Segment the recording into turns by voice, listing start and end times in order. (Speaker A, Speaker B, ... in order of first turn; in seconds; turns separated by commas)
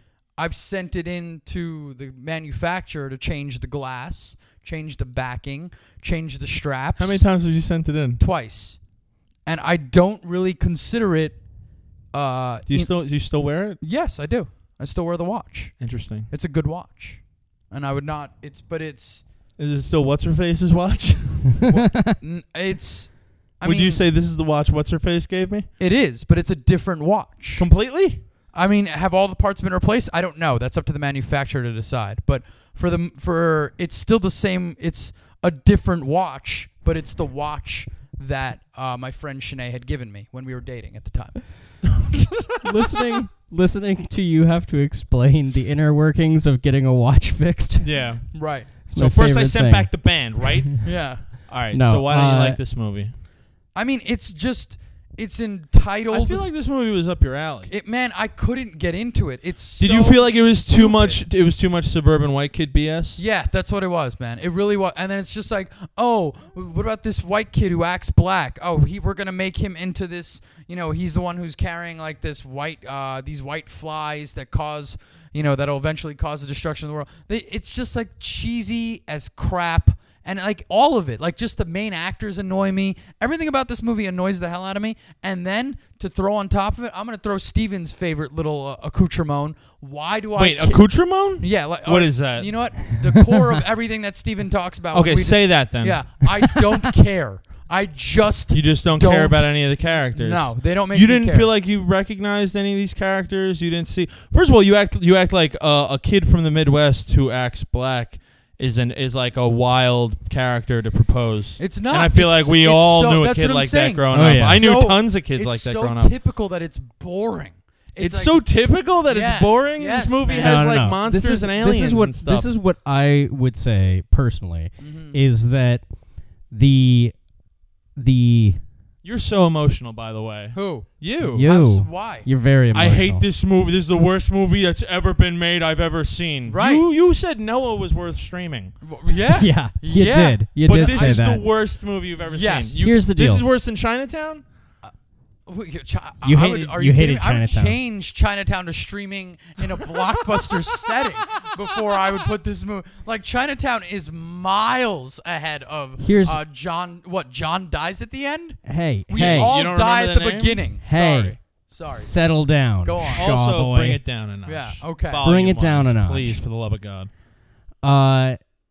Speaker A: 0.4-7.2, Speaker B: 7.0-8.2, Speaker A: 8.2-8.8, Speaker A: 9.5-11.4, Speaker A: 12.1-12.9, Speaker B: 12.7-13.8, Speaker A: 13.8-19.2, Speaker B: 15.8-16.3, Speaker B: 19.6-21.6, Speaker A: 21.7-24.0, Speaker C: 21.9-22.1, Speaker B: 23.6-25.7, Speaker A: 25.8-27.7, Speaker B: 27.6-28.2, Speaker A: 28.5-42.2, Speaker C: 42.6-47.9, Speaker B: 47.8-53.1, Speaker A: 48.3-48.7, Speaker C: 48.9-50.9, Speaker A: 50.8-51.3, Speaker C: 51.7-52.6, Speaker A: 53.8-56.5, Speaker B: 56.1-57.7, Speaker A: 57.7-61.2, Speaker B: 59.8-63.2, Speaker A: 63.2-99.5, Speaker B: 90.4-92.5, Speaker B: 94.9-96.0, Speaker B: 98.5-116.1, Speaker A: 100.2-101.5, Speaker A: 111.6-118.4, Speaker C: 114.1-114.7, Speaker B: 118.0-122.5, Speaker A: 119.1-120.7, Speaker C: 120.3-125.8, Speaker A: 124.8-125.2, Speaker C: 126.5-127.2, Speaker C: 128.0-128.6, Speaker B: 129.0-131.4, Speaker A: 130.5-132.3, Speaker C: 131.3-133.2, Speaker B: 132.7-138.7, Speaker A: 136.5-136.8, Speaker A: 138.8-141.4, Speaker C: 139.3-141.4, Speaker B: 140.6-144.4, Speaker A: 142.3-142.9, Speaker C: 142.8-143.5, Speaker A: 145.5-162.2, Speaker C: 146.2-147.8, Speaker C: 156.0-156.4, Speaker C: 158.7-159.5, Speaker B: 159.1-160.6, Speaker C: 160.8-161.4, Speaker C: 161.9-164.0, Speaker A: 162.8-163.3, Speaker B: 163.1-167.1, Speaker A: 164.5-165.2, Speaker C: 165.2-166.4, Speaker C: 167.8-168.4